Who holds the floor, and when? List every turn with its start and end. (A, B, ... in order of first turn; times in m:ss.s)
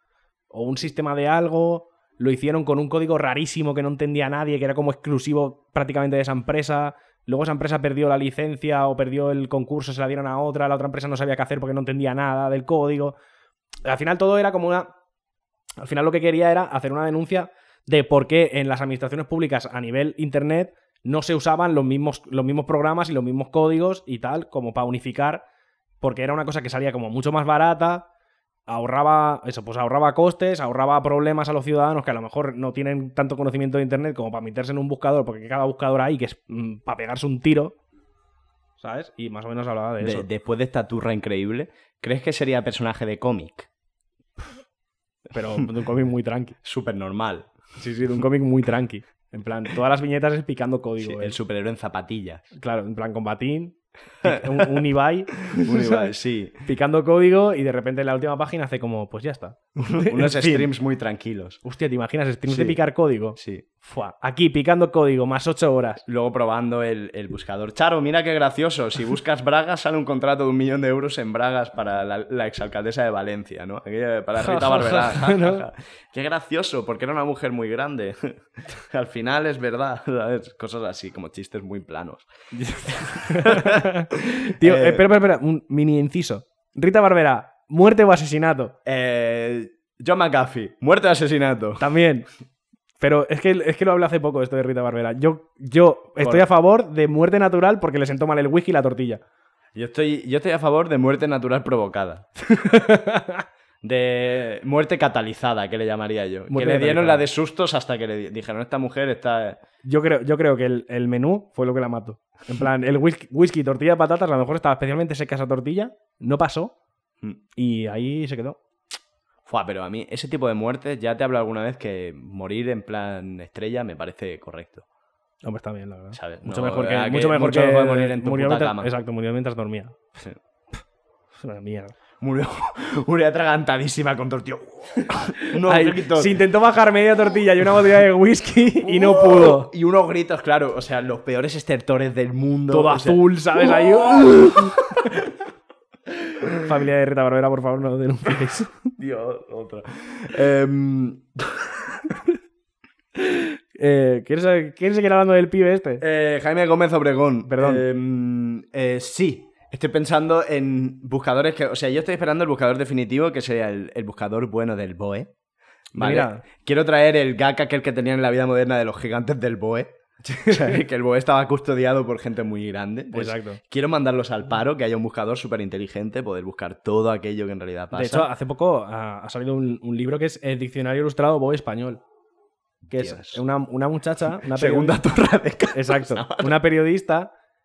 0:00.5-0:13.2 A
0:13.8-0:14.9 A
0:15.8-0:25.4 A
0:26.0-0:28.1 A
0:28.7-0:37.8 A
0:38.8-0:40.3 A
0:40.0-0:43.7 B
0:45.3-0:46.6 A
0:46.6-0:47.5 B
0:47.8-0:51.4 A
0:51.0-0:52.5 B
0:52.6-1:00.7 A
0:54.2-0:54.8 B
0:55.4-0:56.6 B
0:59.8-1:01.6 B
1:01.6-1:06.0 A
1:02.5-1:02.8 B
1:03.4-1:03.6 B
1:06.1-1:22.3 B
1:14.4-1:15.6 A
1:22.5-1:28.7 A
1:22.8-1:25.0 B
1:28.8-1:31.9 B
1:31.8-1:32.3 A
1:33.0-1:39.2 A
1:36.2-1:36.5 B
1:39.8-1:42.3 B
1:42.5-1:43.4 A
1:43.8-1:49.6 B
1:46.5-1:47.2 A
1:49.8-1:56.7 A
1:57.6-1:58.6 A
1:59.5-2:04.8 B
2:05.4-2:10.0 A
2:06.1-2:08.9 B
2:11.4-2:11.9 A
2:12.2-2:16.4 B
2:15.6-2:19.7 A
2:18.8-2:25.1 B
2:22.7-2:25.2 A
2:26.6-2:28.8 A
2:29.0-2:32.0 B
2:33.8-2:36.0 A
2:36.0-2:45.3 B
2:37.5-2:37.8 A
2:45.9-2:49.9 B
2:46.0-2:46.4 A
2:50.3-2:50.8 A
2:50.5-2:58.3 B
2:53.1-2:53.6 A
2:57.9-3:02.0 A
3:02.9-3:03.4 B
3:02.9-3:05.0 A
3:04.4-3:06.6 B
3:05.7-3:07.3 A